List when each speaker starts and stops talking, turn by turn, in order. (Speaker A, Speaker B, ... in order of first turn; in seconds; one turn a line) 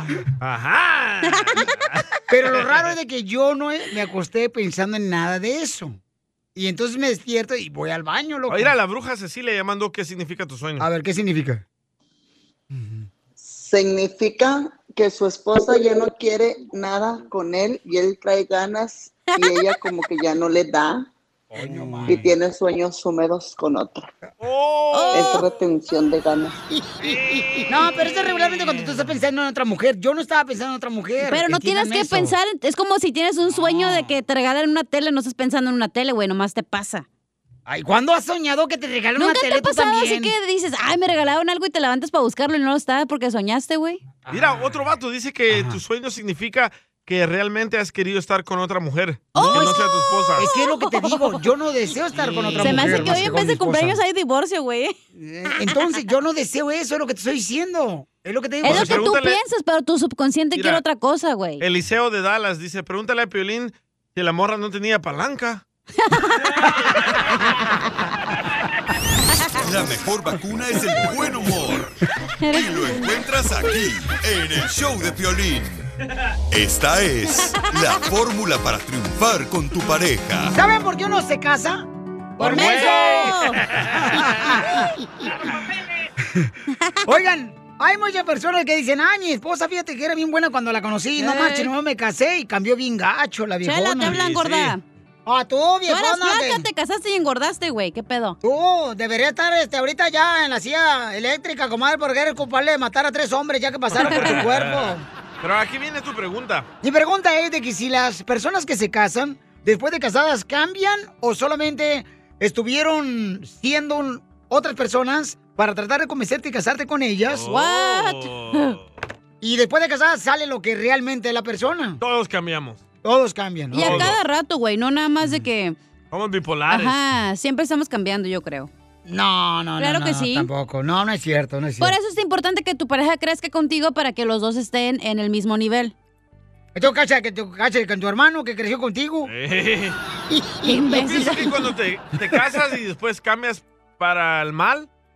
Speaker A: 0.4-2.9
Speaker B: 1.3-1.6
Speaker C: 2.3-6.0
Speaker C: 6.5-8.7
Speaker A: 8.5-10.9
Speaker C: 10.8-11.6
Speaker C: 12.7-13.1
Speaker D: 13.4-21.1
Speaker B: 19.3-19.7
Speaker A: 21.6-22.2
Speaker C: 21.6-22.3
Speaker D: 22.1-24.1
Speaker A: 24.4-25.5
Speaker B: 24.9-25.5
Speaker D: 25.1-26.6
Speaker A: 27.0-29.1
Speaker C: 27.7-32.4
Speaker B: 31.3-37.1
Speaker C: 37.7-40.3
Speaker B: 39.2-44.0
Speaker C: 44.3-44.7
Speaker A: 44.3-50.5
Speaker C: 45.5-45.8
Speaker B: 49.4-51.3
Speaker C: 49.4-49.8
Speaker C: 50.4-54.0
Speaker A: 52.1-53.3
Speaker B: 52.6-54.9
Speaker C: 55.1-59.1
Speaker A: 58.6-59.4
Speaker B: 58.6-61.6
Speaker A: 60.5-60.8
Speaker A: 61.6-65.6
Speaker B: 66.0-66.6
Speaker E: 69.6-71.9
Speaker B: 72.4-73.7
Speaker E: 72.5-75.8
Speaker E: 76.5-80.5
Speaker C: 80.5-81.9
Speaker C: 82.4-83.4
Speaker A: 82.4-84.3
Speaker B: 82.4-83.6
Speaker C: 83.9-84.9
Speaker C: 86.2-86.5
Speaker C: 87.1-94.2
Speaker B: 91.2-91.7
Speaker B: 93.6-94.8
Speaker A: 94.1-94.8
Speaker C: 95.3-96.7
Speaker B: 95.9-98.4
Speaker C: 98.4-105.1
Speaker A: 104.0-106.7
Speaker C: 106.8-117.5
Speaker A: 117.3-118.8
Speaker B: 117.5-118.8
Speaker C: 119.4-122.0
Speaker A: 122.0-122.8
Speaker C: 123.0-124.1
Speaker B: 123.7-125.8
Speaker A: 123.8-124.2
Speaker A: 126.1-127.0
Speaker B: 126.7-128.7
Speaker C: 129.1-131.9
Speaker B: 129.8-130.5
Speaker B: 131.8-135.9
Speaker C: 136.8-139.3
Speaker A: 139.2-140.0
Speaker C: 140.3-140.7
Speaker B: 140.6-141.5
Speaker A: 140.9-144.9